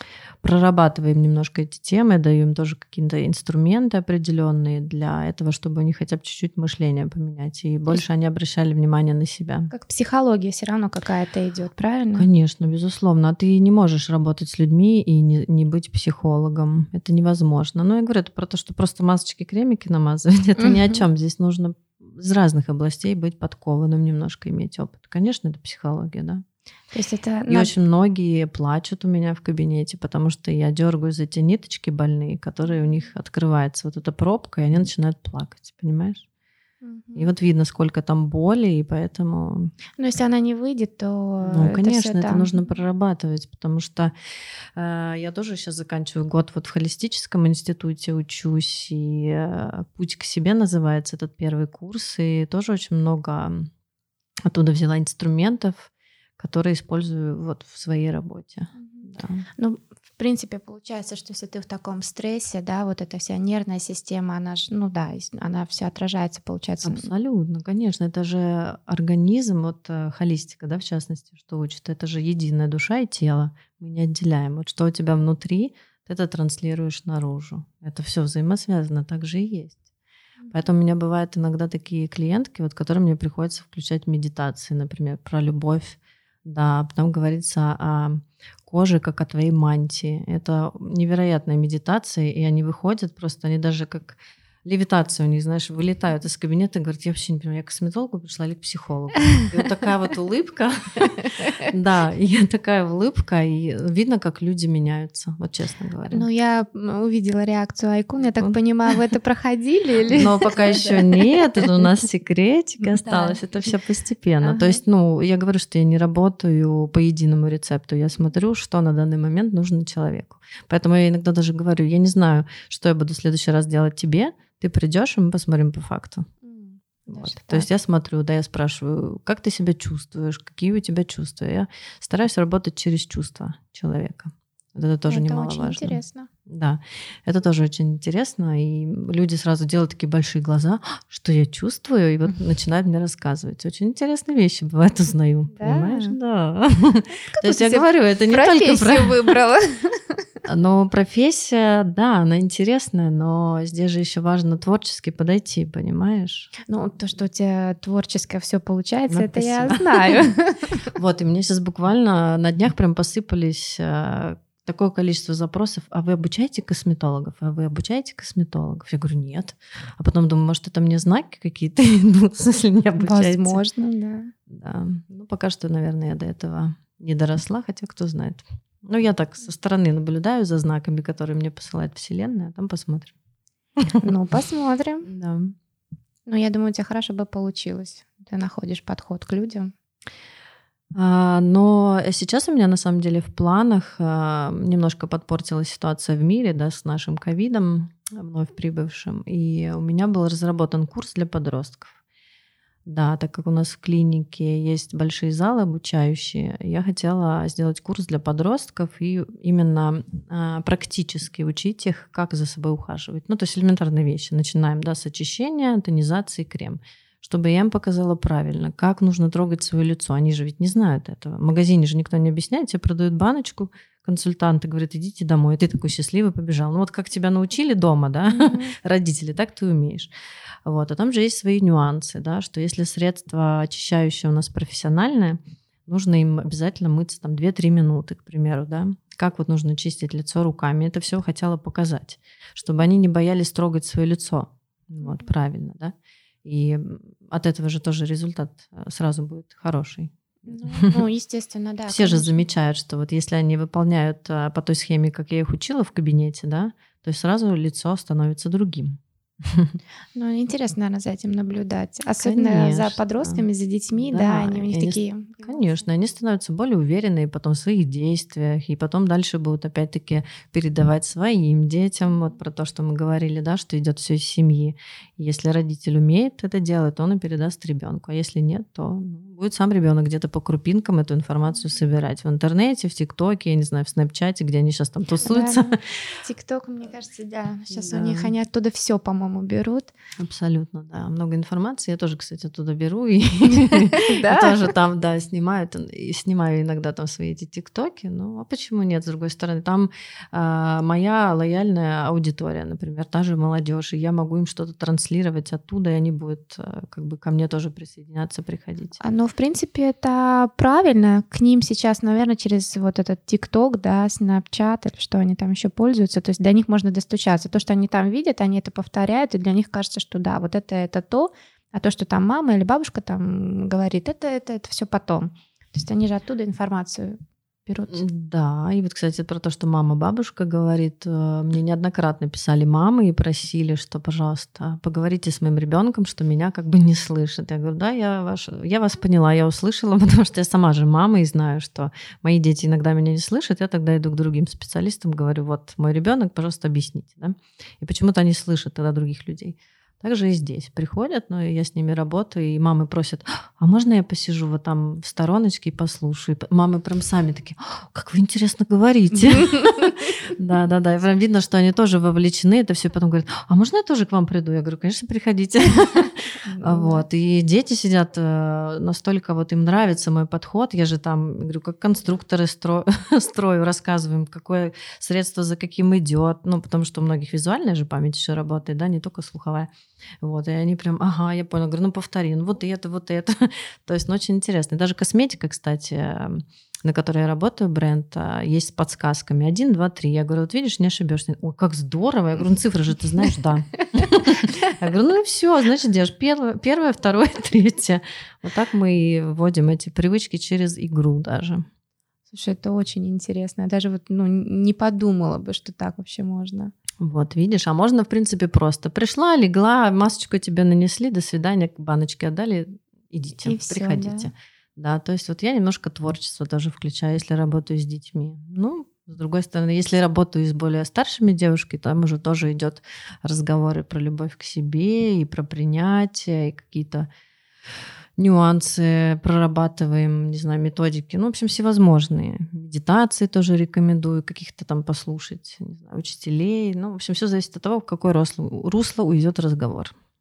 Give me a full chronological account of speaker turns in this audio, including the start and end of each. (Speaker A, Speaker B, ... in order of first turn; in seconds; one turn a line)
Speaker A: 0.4-9.7
Speaker B: 9.7-12.3
Speaker A: 12.2-26.4
Speaker B: 20.6-21.0
Speaker B: 26.9-27.7
Speaker A: 27.5-36.2
Speaker B: 36.8-37.3
Speaker A: 37.1-39.7
Speaker B: 40.0-42.5
Speaker A: 41.4-53.7
Speaker A: 54.5-59.5
Speaker B: 58.8-67.1
Speaker A: 66.8-79.8
Speaker A: 80.5-106.3
Speaker B: 106.1-111.4
Speaker A: 110.1-126.3
Speaker B: 113.0-113.4
Speaker B: 114.4-114.8
Speaker B: 126.4-127.7
Speaker A: 127.1-149.2
Speaker B: 135.1-136.3
Speaker B: 145.6-146.2
Speaker B: 147.3-150.2
Speaker A: 150.5-156.5
Speaker B: 156.7-160.9
Speaker A: 159.1-160.2
Speaker A: 160.9-173.6
Speaker B: 173.0-174.3
Speaker A: 174.5-183.2
Speaker B: 184.0-185.1
Speaker A: 185.1-185.6
Speaker B: 186.3-189.7
Speaker A: 190.9-201.9
Speaker A: 202.9-230.1
Speaker B: 228.3-228.8
Speaker A: 230.7-245.9
Speaker A: 246.4-250.9
Speaker B: 250.5-252.4
Speaker A: 251.9-259.8
Speaker B: 260.1-265.8
Speaker A: 262.2-263.4
Speaker A: 264.0-285.8
Speaker B: 285.2-289.9
Speaker A: 287.7-288.3
Speaker A: 290.2-309.0
Speaker B: 293.9-294.6
Speaker B: 309.0-328.0
Speaker A: 327.9-379.7
Speaker B: 366.5-367.1
Speaker A: 380.2-401.6
Speaker B: 402.3-406.7
Speaker A: 407.0-427.1
Speaker B: 413.4-414.3
Speaker A: 428.2-439.9